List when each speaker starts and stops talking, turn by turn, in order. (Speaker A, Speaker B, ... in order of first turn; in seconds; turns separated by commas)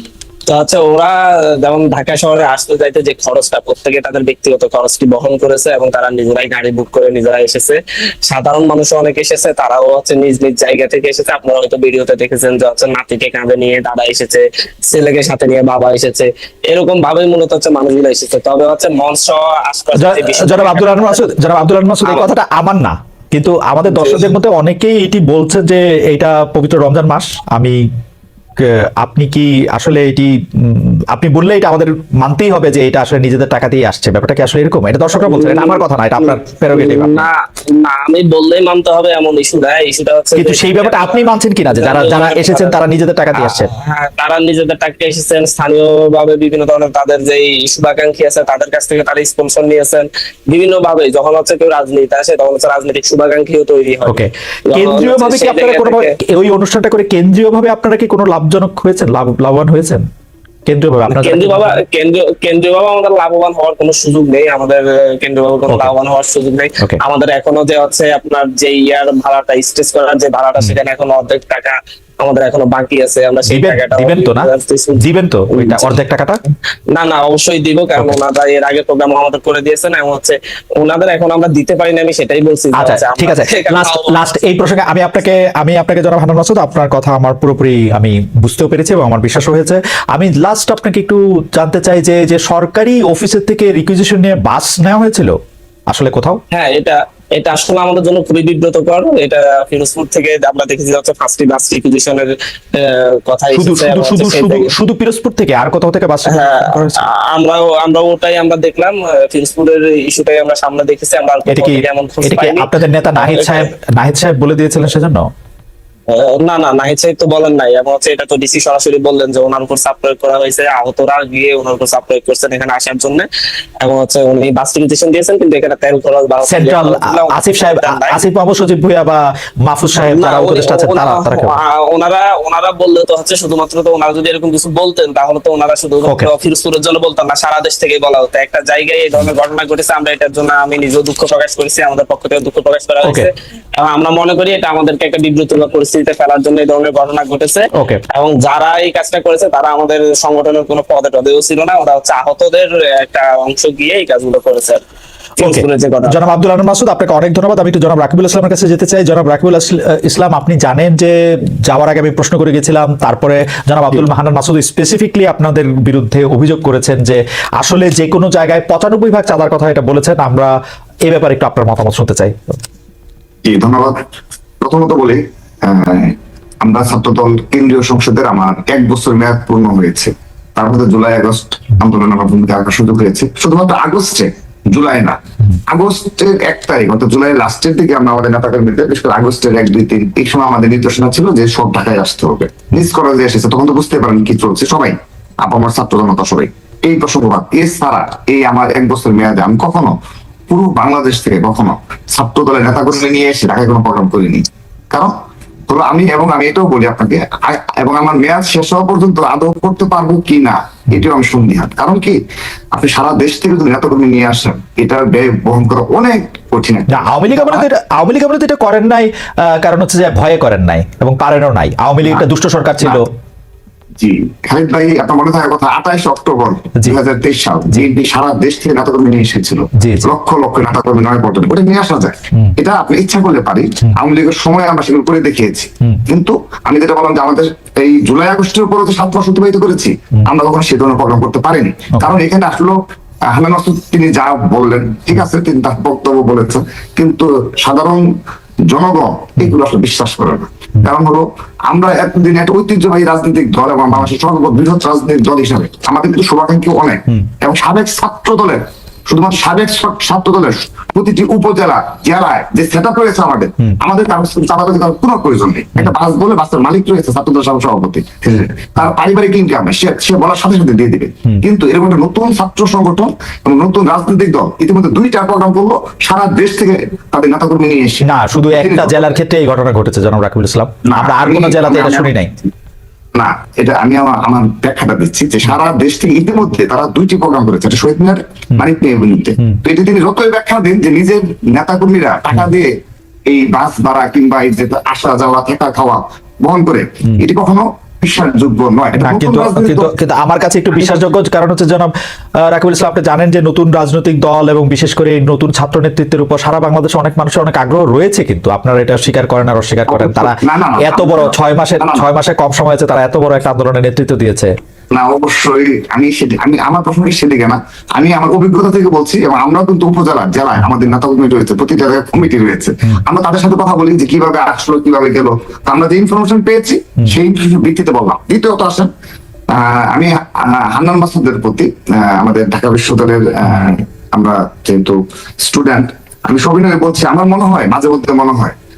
Speaker A: 0.5-21.3, Speaker B: 20.0-27.8, Speaker A: 22.0-22.3, Speaker A: 23.9-24.3, Speaker B: 28.6-37.3, Speaker A: 35.2-42.8, Speaker B: 40.4-43.7, Speaker A: 43.4-56.1, Speaker B: 54.1-60.0, Speaker B: 60.7-61.8, Speaker A: 61.1-76.0, Speaker B: 73.5-76.4, Speaker A: 76.9-84.3, Speaker B: 82.8-95.3, Speaker B: 95.9-96.4, Speaker A: 96.5-104.7, Speaker B: 103.5-107.0, Speaker A: 106.3-113.7, Speaker B: 111.5-115.3, Speaker A: 116.1-123.3, Speaker A: 123.8-128.2, Speaker B: 126.5-131.6, Speaker A: 130.1-154.8, Speaker B: 136.0-136.3, Speaker B: 143.0-143.3, Speaker B: 147.8-148.0, Speaker A: 155.4-156.2, Speaker B: 155.4-161.1, Speaker B: 161.7-170.5, Speaker B: 171.1-172.6, Speaker C: 173.4-173.9, Speaker C: 174.6-185.2, Speaker C: 185.7-199.9, Speaker C: 200.5-205.1, Speaker C: 205.7-212.2, Speaker C: 212.7-217.7, Speaker B: 216.9-223.1, Speaker C: 224.0-242.8, Speaker B: 229.8-230.1, Speaker C: 243.3-248.1, Speaker C: 248.7-279.1, Speaker B: 278.0-282.3, Speaker C: 280.9-282.1, Speaker C: 283.2-292.7, Speaker C: 293.3-299.9, Speaker B: 299.0-301.9, Speaker B: 302.5-314.5, Speaker C: 309.9-312.1, Speaker C: 314.9-328.9, Speaker C: 329.5-338.6, Speaker B: 333.5-333.8